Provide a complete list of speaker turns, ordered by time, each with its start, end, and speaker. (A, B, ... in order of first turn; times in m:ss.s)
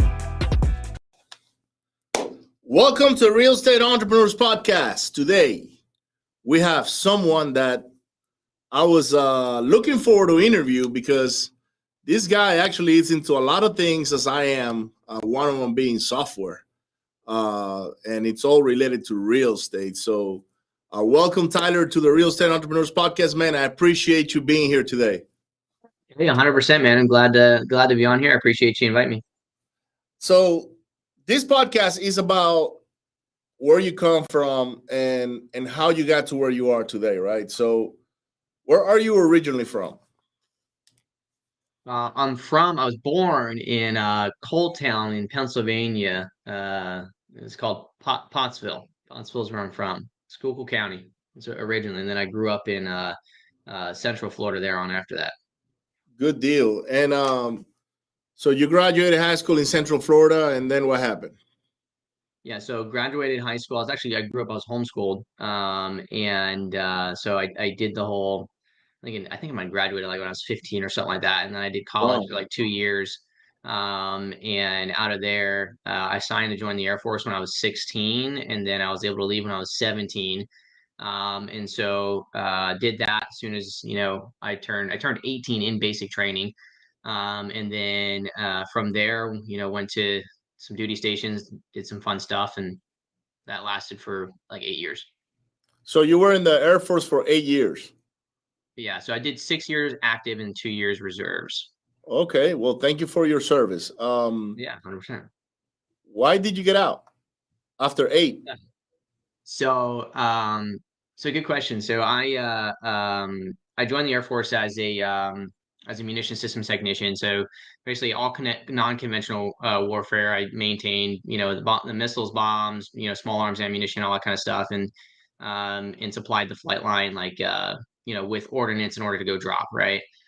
0:02.6-0:05.7 A
0:06.4-0:07.9 A
0:08.7-0:11.5 A
0:12.1-0:16.6 A
0:17.3-0:25.2 A
0:26.1-0:29.2 B
0:30.2-0:30.7 A
0:31.3-0:32.8 A
0:33.6-0:38.0 A
0:38.7-0:40.0 A
0:41.9-0:53.2 B
0:53.7-0:55.3 B
0:56.2-0:57.7 A
0:58.4-1:01.4 A
1:02.4-1:08.5 B
1:09.0-1:20.5 B
1:12.0-1:12.3 A
1:21.0-1:32.8 B
1:33.5-1:35.1 B
1:35.9-1:37.9 A
1:38.8-1:41.7 B
1:42.1-1:44.6 A
1:44.6-1:45.3 B
1:46.1-1:47.0 A
1:47.8-1:48.4 A
1:49.5-2:10.0 B